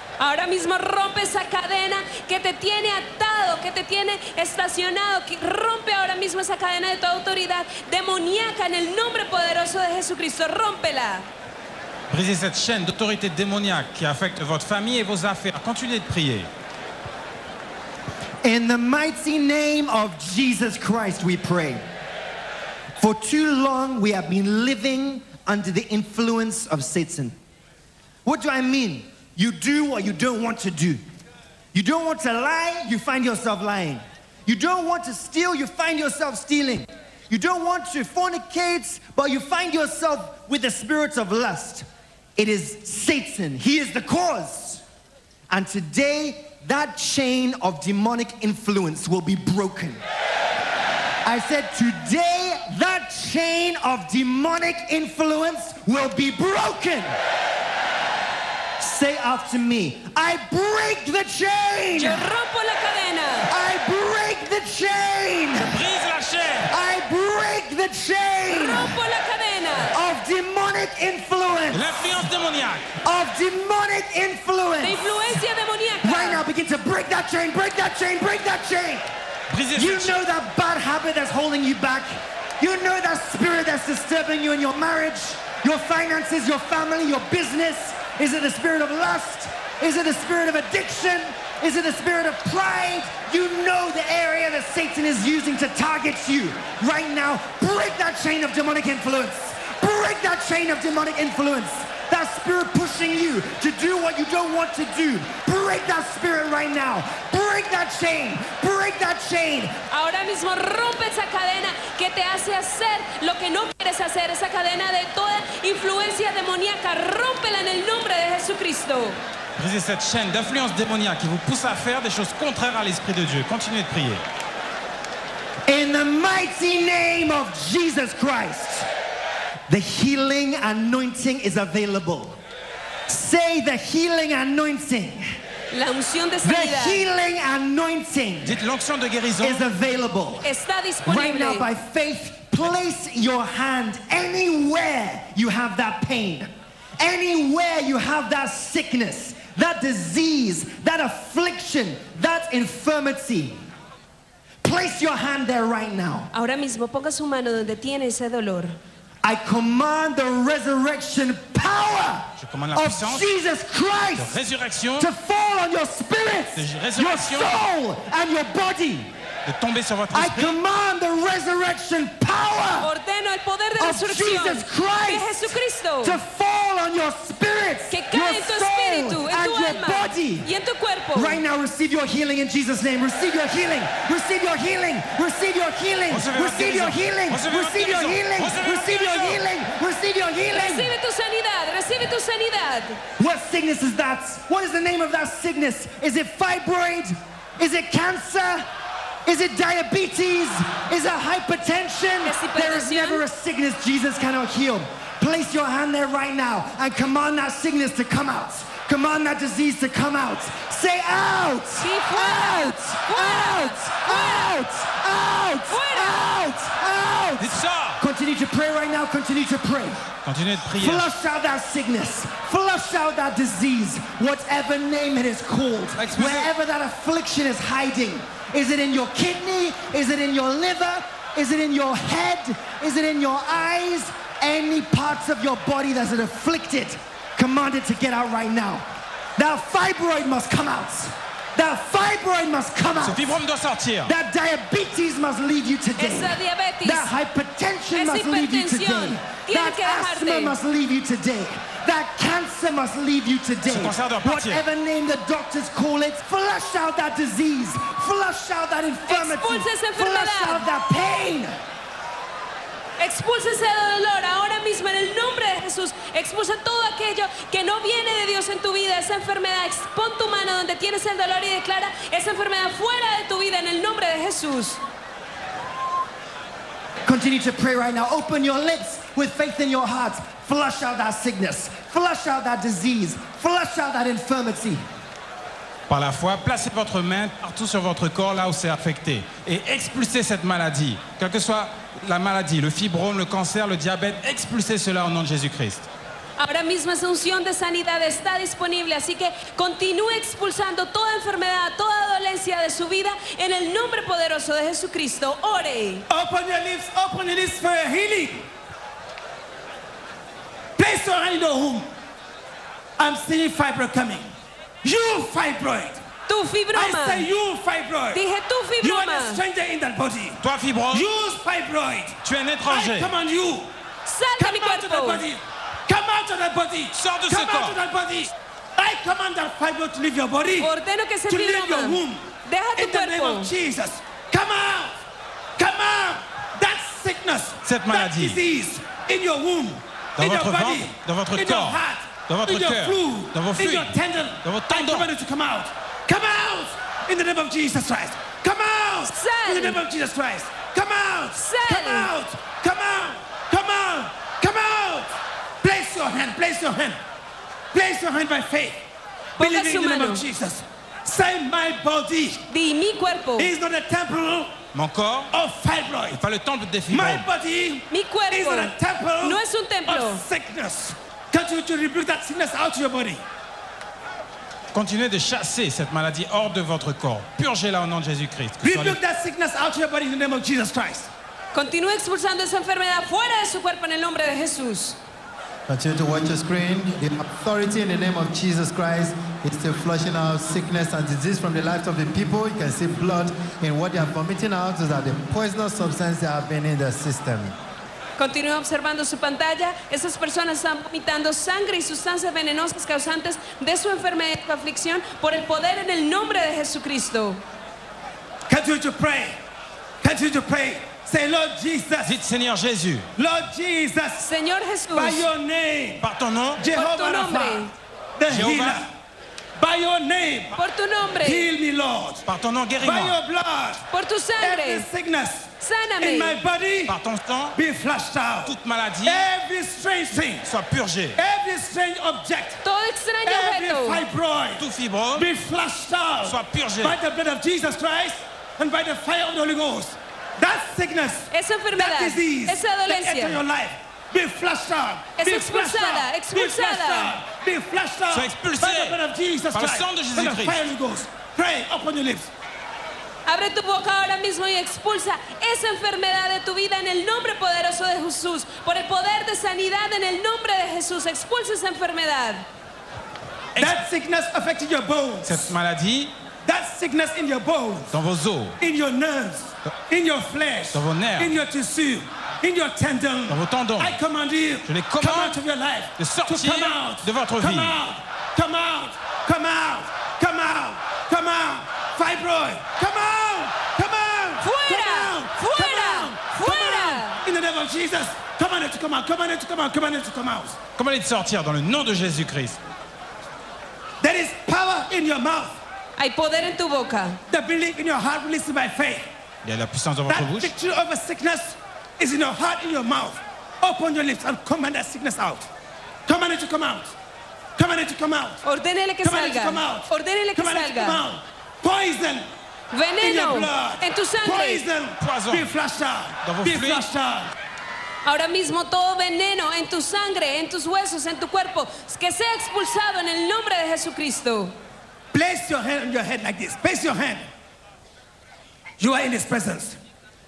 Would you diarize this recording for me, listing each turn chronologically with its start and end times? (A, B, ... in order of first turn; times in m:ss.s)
0:00.2-0:11.3 A
0:12.1-0:16.5 B
0:18.4-0:21.8 C
0:23.0-0:27.4 C
0:28.2-0:31.0 C
0:31.7-0:44.8 C
0:45.5-0:50.0 C
0:51.2-0:57.1 C
0:58.8-1:02.2 C
1:02.0-1:03.5 A
1:03.5-1:05.8 C
1:05.6-1:06.7 B
1:06.7-1:09.0 C
1:08.5-1:10.0 A
1:09.9-1:11.9 C
1:11.7-1:12.9 B
1:13.0-1:15.4 C
1:14.8-1:16.4 A
1:16.0-1:19.1 C
1:19.5-1:20.2 B
1:19.8-1:49.8 C
1:49.9-1:59.2 A
1:59.6-2:04.2 B
2:05.7-2:08.9 C
2:09.7-2:12.4 C
2:13.1-2:15.2 C
2:15.7-2:17.0 A
2:16.4-2:18.6 C
2:18.4-2:19.6 B
2:19.4-2:20.5 C
2:20.4-2:21.7 A
2:21.0-2:33.6 C
2:34.6-2:36.3 C
2:36.3-2:38.8 A
2:39.2-2:44.4 C
2:42.4-2:43.3 B
2:44.2-2:45.1 B
2:45.0-2:49.1 C
2:46.6-2:47.7 B
2:49.5-2:50.6 B
2:50.1-2:52.9 C
2:52.8-2:56.2 A
2:53.8-3:00.5 C
2:57.9-3:01.4 A
3:01.2-3:10.9 C
3:06.1-3:09.4 B
3:10.5-3:13.0 A
3:13.2-3:18.7 C
3:19.3-3:40.0 C
3:22.2-3:23.2 A
3:31.8-3:34.5 A
3:35.7-3:36.2 A
3:37.4-3:38.0 B
3:40.2-3:41.1 B
3:40.8-3:58.9 C
3:46.0-3:46.5 B
3:59.4-4:03.4 C
4:03.0-4:04.1 B
4:04.1-4:21.6 C
4:06.0-4:07.1 A
4:08.0-4:10.6 A
4:13.7-4:14.6 B
4:19.1-4:20.7 A
4:23.0-4:34.8 A
4:37.0-4:44.8 C
4:45.9-4:55.9 B
4:56.4-5:06.1 A
5:06.1-5:08.5 D
5:10.8-5:11.9 D
5:13.0-5:16.0 D
5:16.3-5:17.3 A
5:16.8-5:18.2 D
5:18.1-5:19.4 A
5:18.8-5:23.7 D
5:20.4-5:21.1 B
5:22.2-5:23.2 B
5:24.1-5:25.3 A
5:24.4-5:30.7 D
5:27.0-5:27.8 B
5:30.6-5:33.5 A
5:31.3-5:35.0 D
5:35.6-5:57.0 D
5:37.6-5:38.4 B
5:40.2-5:45.1 B
5:49.1-5:49.8 A
5:51.4-5:52.1 A
5:57.7-5:58.8 D
5:59.4-6:00.2 A
5:59.4-6:02.5 D
6:02.5-6:03.5 A
6:03.4-6:04.6 D
6:04.7-6:05.3 B
6:05.3-6:06.2 D
6:06.1-6:07.3 B
6:06.9-6:13.2 D
6:07.9-6:10.2 A
6:14.7-6:19.0 B
6:18.6-6:21.1 D
6:21.5-6:25.0 A
6:25.7-6:37.6 E
6:38.2-6:47.4 A
6:48.5-6:49.4 D
6:50.0-6:52.2 D
6:52.0-6:53.1 B
6:53.2-6:54.3 D
6:54.2-6:55.3 A
6:54.9-6:56.1 D
6:56.0-6:56.6 B
6:56.6-6:58.9 D
6:56.7-6:57.7 A
6:58.3-6:58.8 B
6:59.6-7:00.6 D
7:00.5-7:01.5 A
7:01.2-7:02.2 D
7:02.3-7:03.2 B
7:02.8-7:03.8 D
7:03.9-7:04.9 A
7:04.4-7:07.0 D
7:05.6-7:06.4 A
7:06.9-7:07.6 B
7:07.5-7:10.5 D
7:08.4-7:09.2 B
7:10.5-7:11.2 B
7:11.2-7:12.6 D
7:12.6-7:14.0 A
7:13.2-7:32.3 D
7:14.6-7:15.3 B
7:16.2-7:17.0 B
7:21.3-7:23.4 A
7:25.2-7:27.2 A
7:28.1-7:29.0 B
7:29.5-7:30.6 B
7:33.3-7:42.4 A
7:43.6-7:45.5 D
7:45.2-7:46.1 B
7:46.4-7:47.9 D
7:47.9-7:48.6 B
7:48.6-8:10.6 D
7:50.7-7:51.4 B
7:53.3-7:54.0 B
7:54.7-7:55.4 B
7:56.0-7:57.8 B
8:04.4-8:07.2 A
8:10.8-8:12.6 B
8:14.0-8:15.6 D
8:16.0-8:17.2 A
8:17.3-8:19.1 D
8:19.4-8:20.5 B
8:20.1-8:25.5 D
8:26.1-8:26.9 D
8:27.6-8:28.4 D
8:28.4-8:31.0 A
8:29.0-8:32.3 D
8:32.7-8:34.6 A
8:33.0-8:37.3 D
8:35.0-8:35.5 B
8:36.2-8:36.9 B
8:38.0-8:44.6 A
8:45.1-8:47.3 D
8:48.8-8:49.8 D